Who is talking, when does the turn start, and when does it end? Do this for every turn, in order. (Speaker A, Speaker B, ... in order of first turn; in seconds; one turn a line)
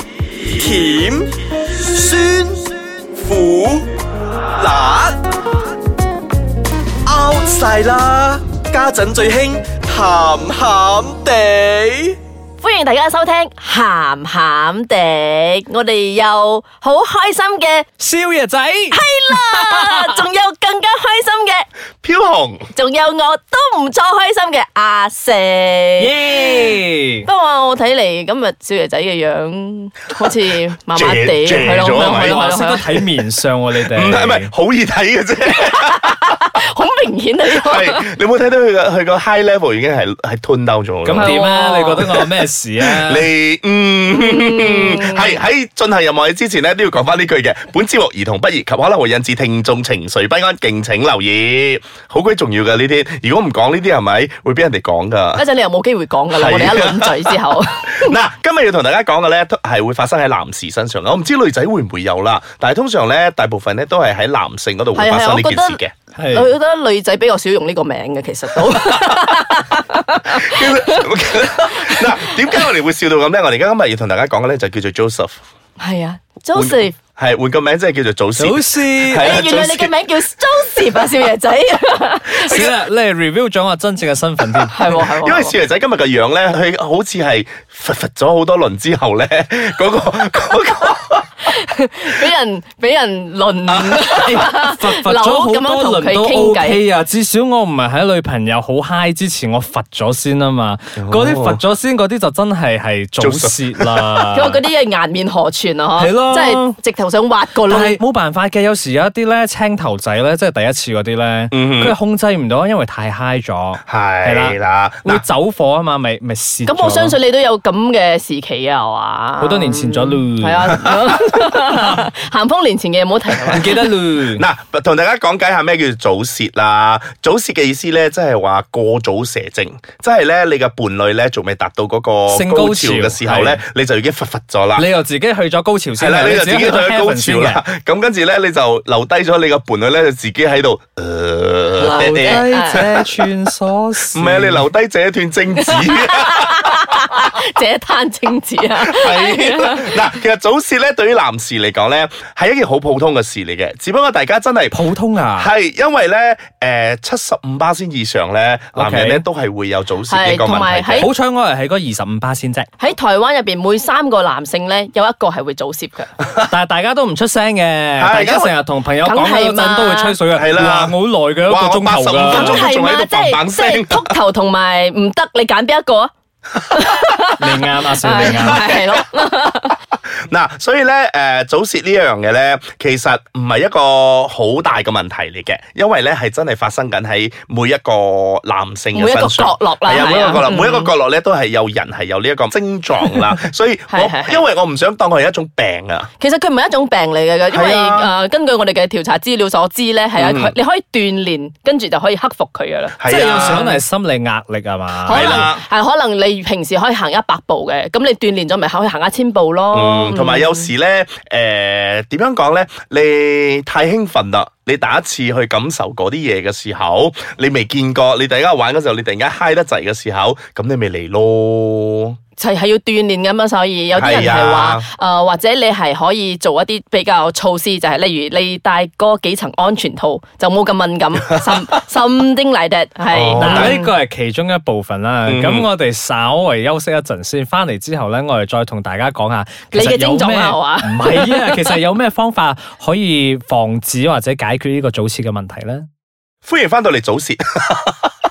Speaker A: 0.5-2.6
Speaker A: 3.1-3.9
Speaker A: 4.6-5.2
Speaker A: 7.0-12.2
Speaker B: 12.6-17.9
Speaker C: 18.0-18.9
Speaker B: 18.9-21.7
Speaker C: 19.5-20.1
Speaker D: 22.0-22.7
Speaker B: 22.7-26.1
Speaker C: 26.0-27.3
Speaker B: 27.2-33.0
Speaker D: 30.9-32.4
Speaker C: 31.7-34.5
Speaker D: 33.9-36.2
Speaker B: 35.5-38.1
Speaker D: 37.5-41.3
Speaker C: 41.0-43.3
Speaker B: 41.2-42.0
Speaker D: 42.0-42.3
Speaker D: 42.8-55.4
Speaker B: 44.1-45.4
Speaker B: 55.3-58.1
Speaker D: 56.4-65.9
Speaker B: 64.9-71.1
Speaker C: 66.2-66.5
Speaker D: 68.7-69.0
Speaker D: 70.3-75.4
Speaker B: 71.7-72.6
Speaker B: 75.8-77.0
Speaker D: 76.5-79.9
Speaker C: 78.3-79.4
Speaker B: 79.2-82.6
Speaker C: 82.4-84.7
Speaker D: 82.4-82.7
Speaker B: 84.7-85.5
Speaker D: 84.8-91.3
Speaker B: 91.5-96.8
Speaker D: 93.7-94.2
Speaker C: 94.2-104.6
Speaker D: 101.0-101.6
Speaker D: 103.2-104.2
Speaker B: 104.3-108.0
Speaker C: 106.0-106.8
Speaker C: 107.7-117.2
Speaker D: 111.5-112.0
Speaker D: 113.9-115.2
Speaker B: 116.7-123.8
Speaker C: 119.4-120.8
Speaker D: 120.9-121.2
Speaker C: 123.5-124.4
Speaker D: 124.3-134.9
Speaker C: 132.3-133.6
Speaker C: 134.8-137.6
Speaker D: 136.0-142.9
Speaker C: 141.8-144.7
Speaker B: 141.9-142.9
Speaker D: 144.1-146.9
Speaker B: 145.6-150.0
Speaker D: 148.8-154.8
Speaker C: 154.7-155.5
Speaker D: 155.4-161.1
Speaker C: 158.7-159.2
Speaker B: 160.1-161.1
Speaker C: 161.0-162.7
Speaker B: 162.8-166.1
Speaker C: 166.5-172.7
Speaker D: 168.0-168.5
Speaker B: 169.0-170.2
Speaker D: 170.3-174.1
Speaker B: 172.3-177.4
Speaker C: 177.4-178.7
Speaker B: 178.0-179.8
Speaker D: 178.2-178.8
Speaker D: 180.3-196.1
Speaker B: 188.9-190.9
Speaker B: 193.9-194.4
Speaker B: 196.2-203.8
Speaker D: 197.5-198.1
Speaker D: 200.2-200.6
Speaker D: 203.0-203.7
Speaker C: 203.1-205.5
Speaker B: 205.1-210.7
Speaker D: 205.1-205.6
Speaker D: 209.7-222.2
Speaker B: 222.4-233.9
Speaker D: 223.9-224.9
Speaker D: 233.1-233.8
Speaker C: 233.4-245.9
Speaker D: 235.2-235.7
Speaker B: 239.7-241.8
Speaker D: 246.4-248.1